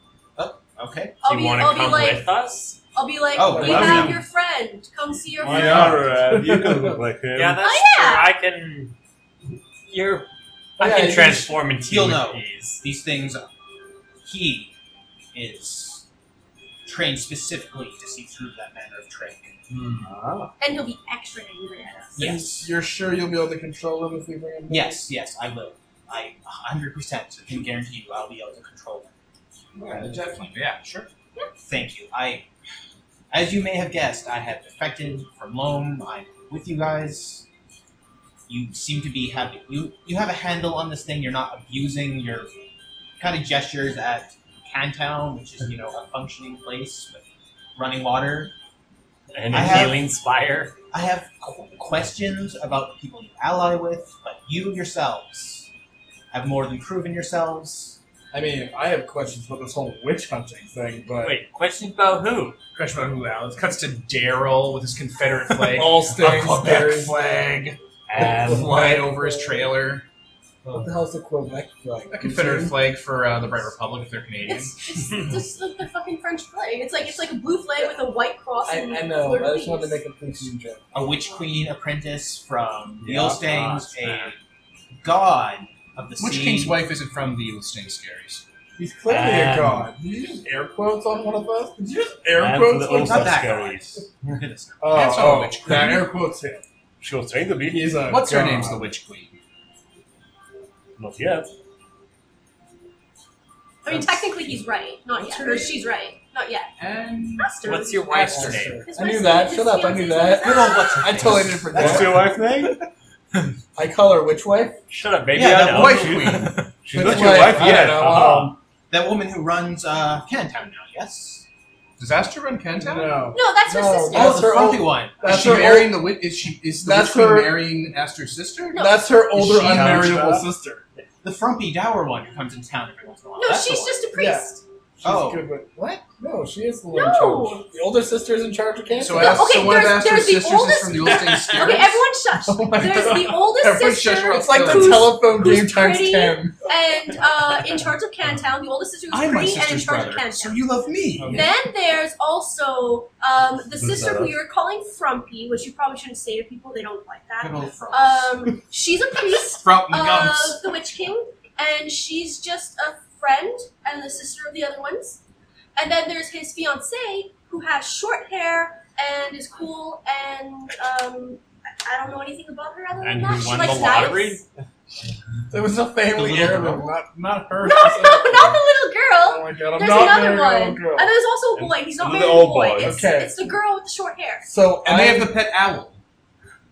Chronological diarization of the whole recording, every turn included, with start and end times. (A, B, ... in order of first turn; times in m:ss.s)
0:00.4-0:01.2 A
0:01.2-0:02.3 B
0:01.2-0:02.8 C
0:02.9-0:06.0 B
0:03.3-0:04.2 A
0:03.5-0:04.2 D
0:05.4-0:07.6 E
0:05.4-0:07.0 D
0:07.3-0:08.9 C
0:07.6-0:08.3 B
0:09.9-0:10.3 C
0:10.8-0:12.8 C
0:10.8-0:11.6 D
0:11.9-0:13.5 A
0:14.2-0:14.7 A
0:15.3-0:16.0 A
0:16.8-0:19.6 A
0:20.0-0:20.5 E
0:20.6-0:22.3 B
0:22.2-0:22.7 A
0:22.2-0:25.0 D
0:24.7-0:29.1 A
0:29.8-0:31.1 F
0:31.6-0:32.5 A
0:33.3-0:37.5 A
0:38.5-0:42.5 A
0:43.2-0:47.2 A
0:47.8-0:48.5 A
0:49.3-0:50.8 C
0:49.5-0:50.0 A
0:50.9-0:55.7 A
0:56.3-0:58.0 A
0:58.3-1:01.4 D
1:01.2-1:02.6 C
1:02.8-1:10.0 F
1:05.7-1:07.2 D
1:08.1-1:08.8 E
1:08.2-1:09.6 D
1:10.7-1:12.8 D
1:12.1-1:14.8 F
1:14.4-1:20.0 B
1:18.7-1:20.9 D
1:20.9-1:24.4 A
1:23.0-1:23.4 E
1:23.5-1:24.3 C
1:25.0-1:26.8 A
1:26.2-1:28.4 F
1:28.8-1:33.4 D
1:29.1-1:29.9 E
1:32.4-1:34.0 E
1:32.9-1:34.9 A
1:34.8-1:36.6 D
1:34.9-1:36.1 F
1:37.0-1:38.0 E
1:37.7-1:38.9 D
1:38.1-1:39.4 F
1:41.0-1:41.5 E
1:43.8-1:46.7 B
1:45.2-1:45.8 D
1:46.8-1:47.5 F
1:47.4-1:51.4 B
1:47.6-1:48.8 C
1:48.0-1:52.4 D
1:50.4-1:52.1 A
1:51.7-1:52.8 E
1:53.8-1:54.8 D
1:54.9-1:56.7 C
1:55.3-1:56.2 A
1:55.6-1:58.6 E
1:55.7-1:56.5 F
1:56.9-1:58.6 D
1:58.9-2:01.5 A
2:02.0-2:03.2 F
2:02.8-2:06.2 D
2:03.3-2:04.7 B
2:04.1-2:05.7 A
2:05.2-2:08.8 F
2:06.8-2:07.7 D
2:08.7-2:09.2 B
2:08.8-2:10.8 D
2:09.3-2:10.2 F
2:09.4-2:10.5 E
2:11.2-2:14.0 A
2:13.4-2:14.6 B
2:14.2-2:14.5 D
2:15.0-2:19.5 D
2:15.0-2:15.4 A
2:16.9-2:17.7 B
2:19.0-2:22.1 F
2:19.2-2:30.7 B
2:22.5-2:26.6 D
2:23.6-2:25.1 F
2:29.1-2:31.4 F
2:31.3-2:45.2 B
2:33.8-2:34.4 E
2:37.4-2:38.5 A
2:39.6-2:40.6 F
2:45.8-2:54.4 B
2:53.0-2:54.4 C
2:55.5-2:58.6 D
2:56.1-2:56.9 A
2:57.6-3:04.5 B
2:59.2-3:01.1 D
3:01.6-3:03.1 E
3:02.8-3:03.4 D
3:04.5-3:05.4 D
3:04.8-3:06.0 F